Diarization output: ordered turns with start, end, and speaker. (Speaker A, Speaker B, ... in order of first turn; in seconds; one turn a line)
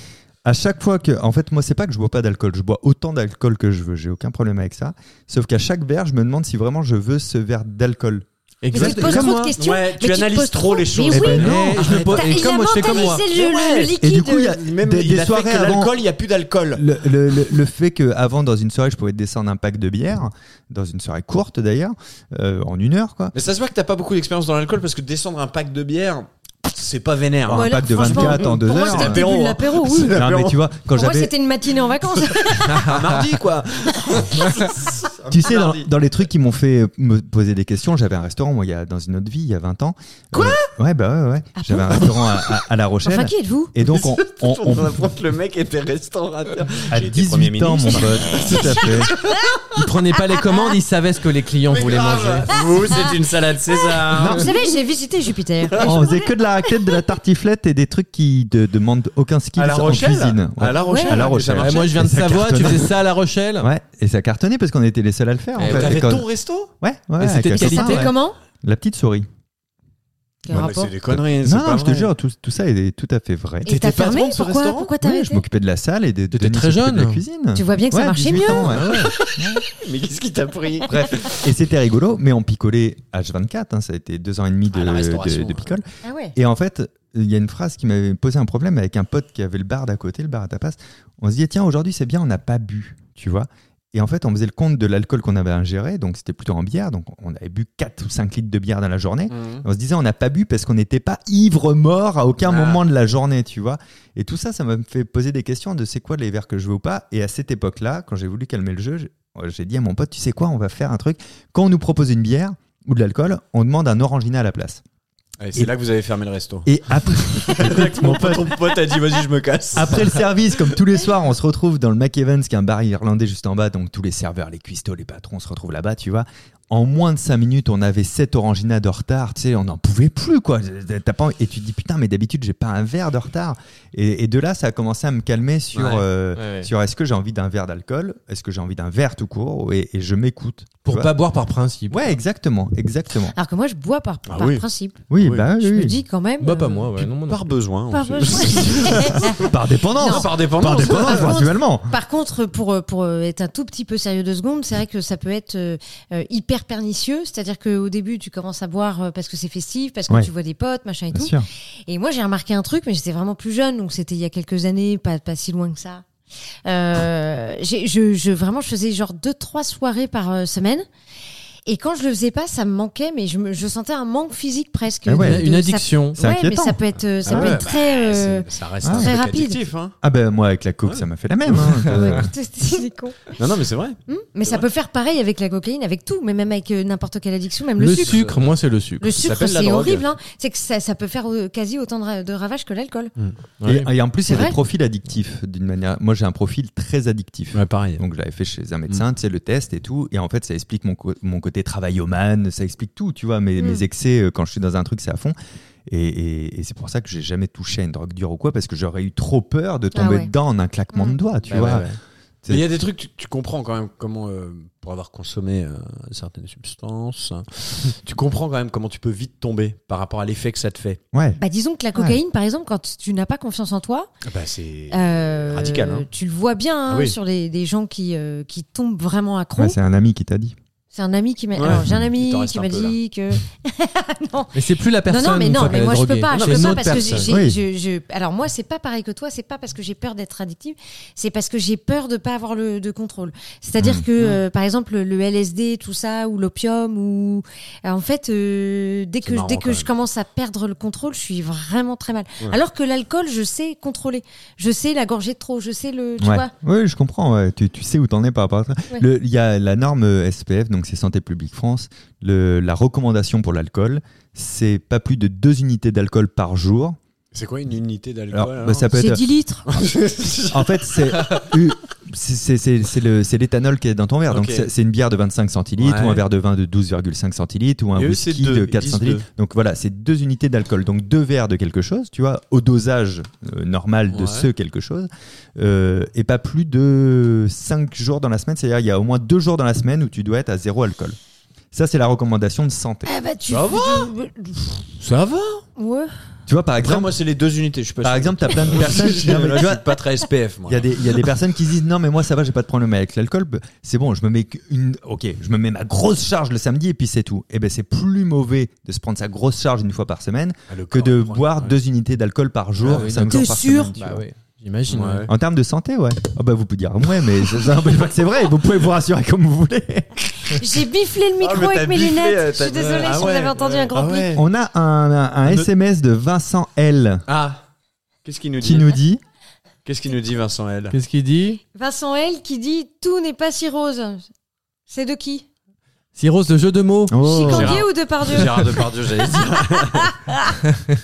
Speaker A: 0.5-9.5
Speaker B: 8.6-9.5
Speaker C: 8.7-14.6
Speaker D: 9.6-14.0
Speaker A: 11.1-12.1
Speaker B: 11.3-13.2
Speaker A: 14.0-16.0
Speaker D: 14.6-16.9
Speaker A: 16.8-23.3
Speaker D: 23.3-30.6
Speaker A: 27.5-29.2
Speaker C: 27.5-30.2
Speaker A: 29.9-31.3
Speaker C: 30.9-32.9
Speaker D: 32.8-35.9
Speaker A: 35.3-45.1
Speaker C: 40.3-40.7
Speaker C: 41.5-42.2
Speaker C: 43.1-43.8
Speaker D: 43.8-49.5
Speaker A: 46.9-49.1
Speaker B: 49.7-52.6
Speaker D: 51.7-54.5
Speaker C: 54.0-56.3
Speaker A: 54.1-54.5
Speaker D: 55.7-56.0
Speaker A: 55.8-63.0
Speaker D: 59.6-62.2
Speaker C: 60.8-61.3
Speaker B: 61.5-63.7
Speaker A: 63.6-66.3
Speaker B: 65.6-66.1
Speaker D: 65.6-66.7
Speaker A: 66.8-69.3
Speaker B: 67.2-68.1
Speaker C: 67.5-68.4
Speaker C: 70.5-70.9
Speaker D: 70.5-72.1
Speaker A: 70.5-73.8
Speaker C: 73.7-75.4
Speaker D: 73.7-74.9
Speaker A: 75.0-79.6
Speaker B: 76.3-77.2
Speaker C: 77.5-79.3
Speaker B: 78.6-79.1
Speaker D: 79.6-81.4
Speaker A: 80.9-114.8
Speaker D: 84.7-85.7
Speaker C: 86.0-86.3
Speaker D: 99.3-99.7
Speaker D: 102.4-102.8
Speaker D: 115.4-120.2
Speaker A: 116.7-118.7
Speaker A: 119.7-141.1
Speaker D: 135.8-136.1
Speaker B: 140.8-142.0
Speaker A: 141.9-143.3
Speaker C: 143.3-146.9
Speaker D: 144.3-144.7
Speaker A: 145.1-146.0
Speaker D: 145.2-145.5
Speaker B: 146.4-147.5
Speaker D: 146.9-149.5
Speaker C: 147.9-166.1
Speaker A: 149.0-151.9
Speaker D: 150.0-151.4
Speaker A: 161.1-161.5
Speaker C: 166.7-170.9
Speaker C: 171.7-179.6
Speaker A: 175.1-175.4
Speaker B: 175.2-176.2
Speaker A: 176.2-177.6
Speaker D: 177.2-180.0
Speaker A: 178.8-179.1
Speaker A: 180.0-182.3
Speaker D: 180.8-181.9
Speaker C: 181.9-183.4
Speaker D: 183.4-184.7
Speaker C: 184.1-188.3
Speaker B: 187.8-189.1
Speaker D: 188.1-188.5
Speaker C: 189.0-193.1
Speaker D: 189.2-190.1
Speaker D: 193.2-193.9
Speaker B: 193.6-193.9
Speaker A: 193.7-205.4
Speaker C: 194.3-194.6
Speaker D: 197.5-198.0
Speaker C: 203.6-203.8
Speaker A: 205.9-211.9
Speaker C: 209.9-210.3
Speaker D: 211.5-211.9
Speaker B: 211.5-211.9
Speaker A: 212.4-212.8
Speaker D: 212.5-221.0
Speaker A: 221.1-221.4
Speaker C: 221.4-224.1
Speaker D: 224.2-226.1
Speaker C: 224.9-229.8
Speaker D: 226.9-227.2
Speaker A: 229.6-230.6
Speaker C: 230.9-256.5
Speaker D: 231.6-233.0
Speaker A: 231.7-232.0
Speaker B: 234.6-237.3
Speaker D: 236.3-237.3
Speaker A: 237.3-237.6
Speaker A: 243.8-244.0
Speaker D: 249.2-249.9
Speaker A: 256.2-267.0
Speaker D: 267.3-268.9
Speaker A: 268.3-269.2
Speaker C: 268.9-269.7
Speaker D: 269.7-271.5
Speaker A: 270.5-291.2
Speaker D: 274.3-274.7
Speaker D: 275.8-276.2
Speaker D: 278.0-279.2
Speaker D: 284.1-284.5
Speaker A: 291.7-293.1
Speaker C: 293.1-294.8
Speaker D: 293.5-294.1
Speaker D: 295.0-295.7
Speaker C: 295.8-296.1
Speaker A: 296.5-297.2
Speaker D: 296.8-301.0
Speaker A: 298.0-299.8
Speaker A: 300.7-314.2
Speaker D: 310.7-311.8
Speaker B: 312.9-315.3
Speaker C: 313.3-314.0
Speaker D: 314.9-315.3
Speaker A: 315.3-320.6
Speaker C: 320.5-324.4
Speaker D: 321.4-324.4
Speaker A: 324.3-327.2
Speaker D: 327.3-327.6
Speaker D: 328.2-328.9
Speaker A: 328.6-329.2
Speaker D: 329.9-331.0
Speaker B: 330.9-331.6
Speaker C: 331.7-334.3
Speaker C: 334.9-335.4
Speaker B: 336.1-337.2
Speaker A: 337.1-337.8
Speaker C: 337.2-340.4
Speaker D: 337.4-340.2